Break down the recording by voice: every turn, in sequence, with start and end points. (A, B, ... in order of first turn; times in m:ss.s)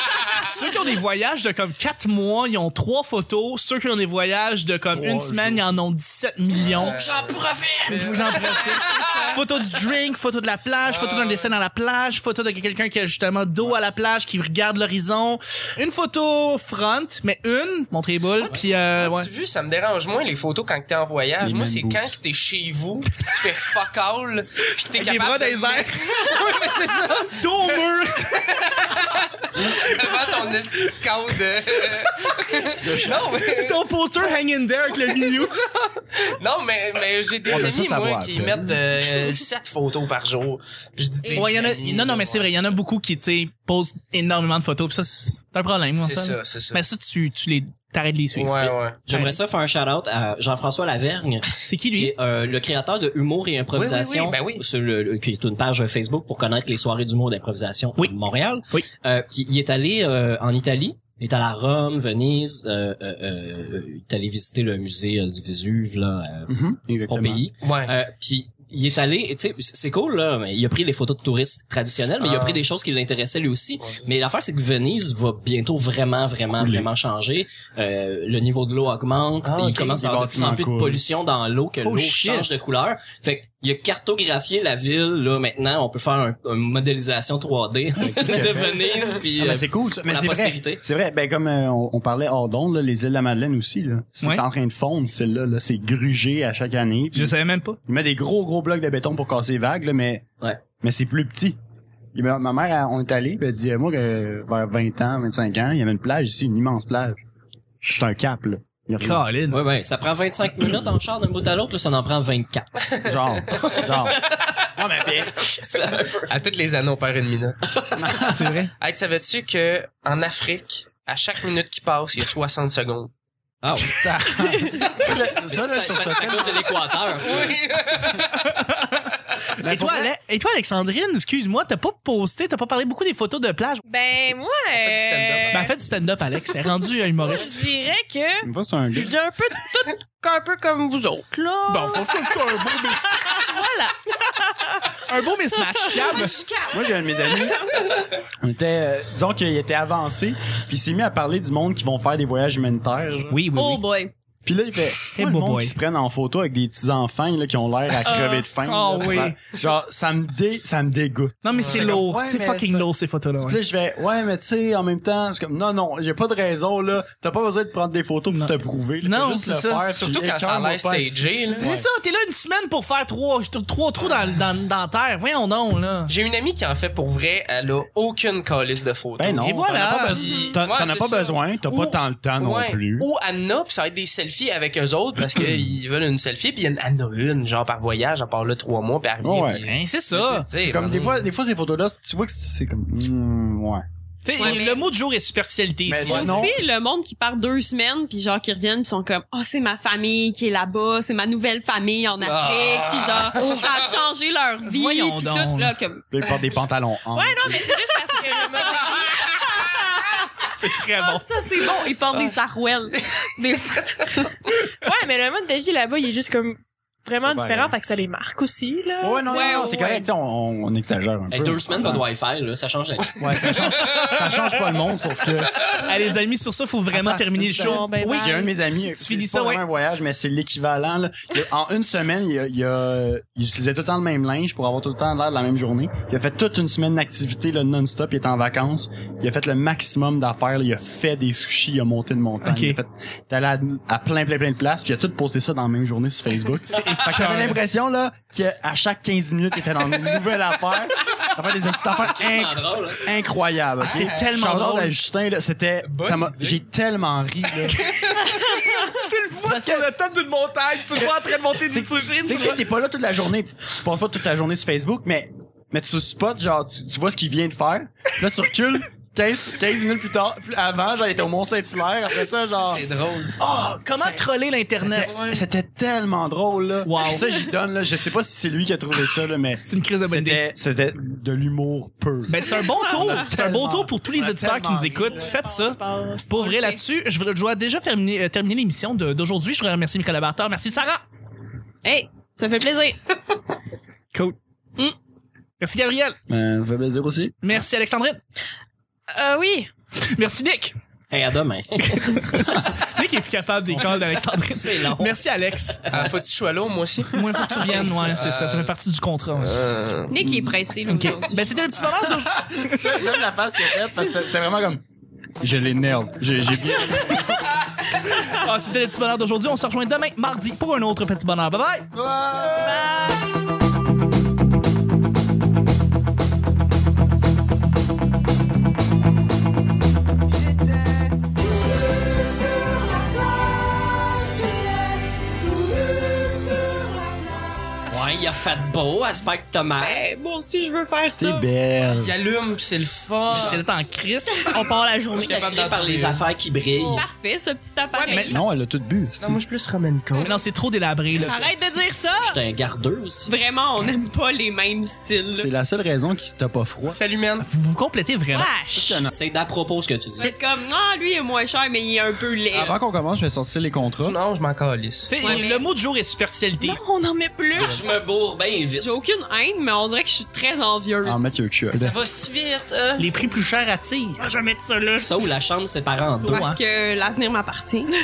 0:00.3-0:07.0 A
0:04.9-0:05.7 B
0:06.6-0:09.4 C
0:06.8-0:08.6 D
0:07.9-0:19.3 A
0:10.8-0:11.5 C
0:18.5-0:33.9 C
0:21.4-0:22.2 B
0:24.9-0:26.4 A
0:27.3-0:28.5 A
0:32.8-0:33.4 B
0:33.4-0:35.7 A
0:34.9-0:42.8 C
0:37.5-0:38.8 B
0:41.2-0:41.5 E
0:41.3-0:49.4 A
0:46.0-0:46.8 C
0:48.3-0:49.0 C
0:49.1-1:30.8 D
0:51.6-0:52.1 A
0:53.8-0:54.6 C
1:06.5-1:07.4 B
1:07.6-1:07.9 C
1:12.2-1:12.6 C
1:13.8-1:14.1 C
1:16.5-1:16.9 B
1:19.4-1:20.0 C
1:19.7-1:21.0 B
1:21.8-1:22.6 A
1:28.0-1:28.8 B
1:29.4-1:40.3 B
1:37.1-1:37.8 A
1:40.8-1:41.6 B
1:42.1-1:47.2 B
1:47.8-1:49.2 B
1:49.0-1:49.6 A
1:49.5-1:52.9 D
1:53.0-1:55.4 B
1:53.5-1:56.3 D
1:56.2-2:03.1 C
1:58.0-1:58.7 B
1:58.3-1:58.7 A
2:03.6-2:04.1 D
2:03.8-2:06.8 B
2:05.0-2:07.6 D
2:07.2-2:08.4 C
2:08.3-2:13.8 A
2:09.6-2:10.1 B
2:13.9-2:15.7 F
2:14.7-2:15.7 C
2:15.5-2:17.6 A
2:17.2-2:25.0 F
2:18.4-2:19.1 B
2:21.7-2:23.7 A
2:25.1-2:26.4 A
2:25.7-2:26.1 F
2:26.1-2:26.7 E
2:26.7-2:33.4 B
2:33.3-2:33.8 A
2:33.6-2:34.1 E
2:34.4-2:51.9 B
2:35.2-2:35.7 A
2:38.1-2:38.5 F
2:38.6-2:39.4 A
2:41.4-2:43.6 A
2:41.5-2:42.0 C
2:49.0-2:49.9 A
2:49.9-2:51.7 C
2:51.6-2:56.1 A
2:56.1-2:59.5 C
2:59.2-3:03.1 B
2:59.4-3:00.2 A
3:00.1-3:11.3 C
3:05.4-3:05.6 B
3:09.2-3:09.7 B
3:09.7-3:10.5 A
3:10.5-3:13.8 B
3:14.2-3:16.5 A
3:14.4-3:14.7 E
3:14.4-3:14.8 C
3:15.9-3:16.6 B
3:16.0-3:26.0 E
3:22.2-3:23.8 C
3:24.6-3:25.8 A
3:26.1-3:27.7 B
3:27.1-3:29.1 F
3:28.2-3:34.4 E
3:30.6-3:31.3 A
3:34.8-3:39.8 F
3:37.2-3:37.7 B
3:39.0-3:42.1 B
3:39.3-3:40.1 E
3:41.3-3:43.6 D
3:43.2-3:45.6 B
3:43.7-3:44.2 C
3:45.8-3:48.4 A
3:46.9-4:17.9 B
3:47.6-3:48.5 F
3:49.0-3:49.6 A
4:02.4-4:02.8 A
4:06.6-4:07.6 A
4:11.8-4:13.1 D
4:13.8-4:14.4 C
4:13.8-4:15.0 A
4:15.8-4:16.6 C
4:18.2-4:22.6 A
4:19.4-4:19.9 B
4:21.6-4:32.9 B
4:32.4-4:33.4 C
4:33.4-4:35.2 A
4:34.8-4:35.4 C
4:34.8-4:45.3 B
4:36.8-4:37.3 A
4:39.7-4:40.4 A
4:42.3-4:51.0 A
4:45.0-4:46.6 F
4:46.4-4:46.7 E
4:51.8-4:53.0 E
4:55.6-4:56.2 A
4:56.3-4:57.4 B
4:57.4-4:58.2 A
4:59.1-4:59.7 F
5:00.0-5:00.7 A
5:01.1-5:02.3 D
5:01.8-5:06.0 A
5:04.5-5:05.2 D
5:05.9-5:08.8 C
5:07.1-5:09.6 A
5:09.4-5:10.2 C
5:10.1-5:11.6 E
5:10.9-5:13.0 A
5:12.2-5:14.8 B
5:15.4-5:17.5 B
5:18.1-5:21.9 A
5:21.9-5:22.8 B
5:22.6-5:22.9 F
5:37.9-5:40.0 D
5:39.8-5:41.4 E
5:41.2-5:42.2 B
5:41.9-5:43.6 C
5:43.3-5:44.6 A
5:44.4-5:45.4 F
5:45.1-5:46.3 C
5:45.2-5:47.1 D
5:46.8-5:47.0 F
5:46.9-5:48.4 E
5:47.9-5:48.3 F
5:48.1-5:48.4 A
5:48.3-5:49.4 B
5:49.2-5:50.4 C
5:50.2-5:51.6 A
5:51.3-5:52.4 F
5:52.2-5:53.3 D
5:53.3-5:55.5 E
5:55.4-5:57.0 B
5:56.8-5:57.5 C
5:57.4-5:58.6 A
5:58.3-5:59.1 F
5:58.7-5:59.1 B
5:59.1-6:00.3 D
6:00.2-6:02.8 E
6:02.5-6:04.2 B
6:04.0-6:05.4 C
6:05.1-6:06.8 A
6:05.2-6:05.6 E
6:06.6-6:07.8 F
6:07.5-6:08.9 D
6:08.8-6:11.2 E
6:11.0-6:12.0 B
6:11.7-6:13.2 C
6:13.0-6:14.3 A
6:14.2-6:15.1 F
6:15.0-6:16.5 D
6:16.3-6:17.9 E
6:16.3-6:16.6 A